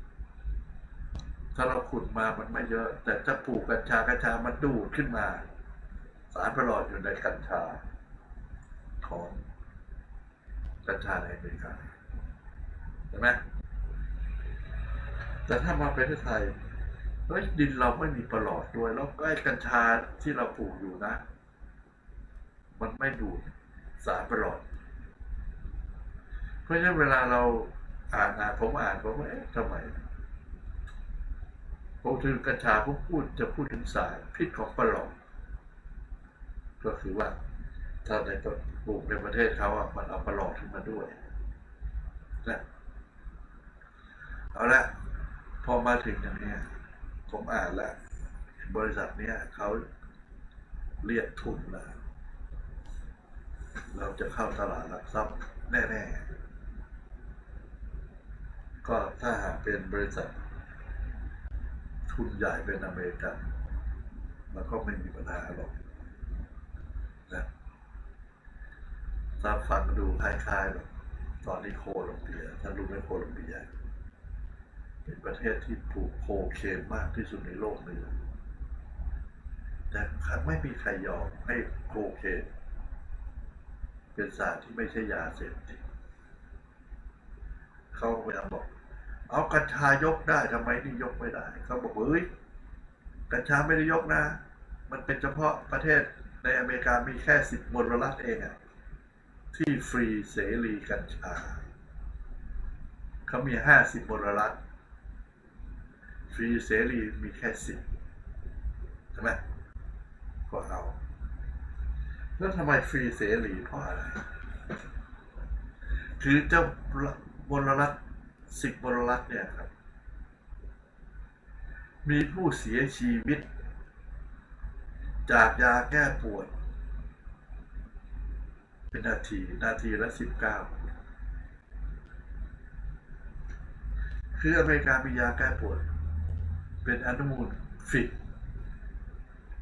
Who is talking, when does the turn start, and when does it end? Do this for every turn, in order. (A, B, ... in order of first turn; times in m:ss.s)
0:01.5-0:05.4 A
0:06.3-0:07.8 A
0:09.0-0:09.4 A
0:10.8-0:11.9 A
0:13.1-0:13.4 A
0:15.5-0:16.6 A
0:17.3-0:21.2 A
0:22.8-0:24.6 A
0:26.7-0:30.0 A
0:32.0-0:35.2 A
0:36.8-0:37.4 A
0:38.0-0:41.2 A
0:44.5-0:45.0 A
0:45.6-0:46.7 A
0:47.3-0:48.0 A
0:48.6-0:49.8 A
0:51.0-0:52.0 A
0:53.9-0:56.3 A
0:58.8-1:00.4 A
1:02.1-1:03.4 A
1:04.5-1:05.8 A
1:09.4-1:10.9 A
1:11.4-1:13.7 A
1:15.0-1:18.2 A
1:19.9-1:22.5 A
1:24.1-1:25.8 A
1:27.9-1:28.7 A
1:29.3-1:32.3 A
1:33.3-1:38.6 A
1:39.5-1:41.6 A
1:43.3-1:44.6 A
1:46.3-1:47.8 A
1:49.1-1:49.4 A
1:50.5-1:51.0 A
1:52.4-1:54.3 A
1:56.2-1:58.0 A
1:58.5-1:59.7 A
2:02.0-2:03.5 A
2:05.3-2:06.5 A
2:08.9-2:10.8 A
2:14.4-2:15.8 A
2:16.8-2:18.2 A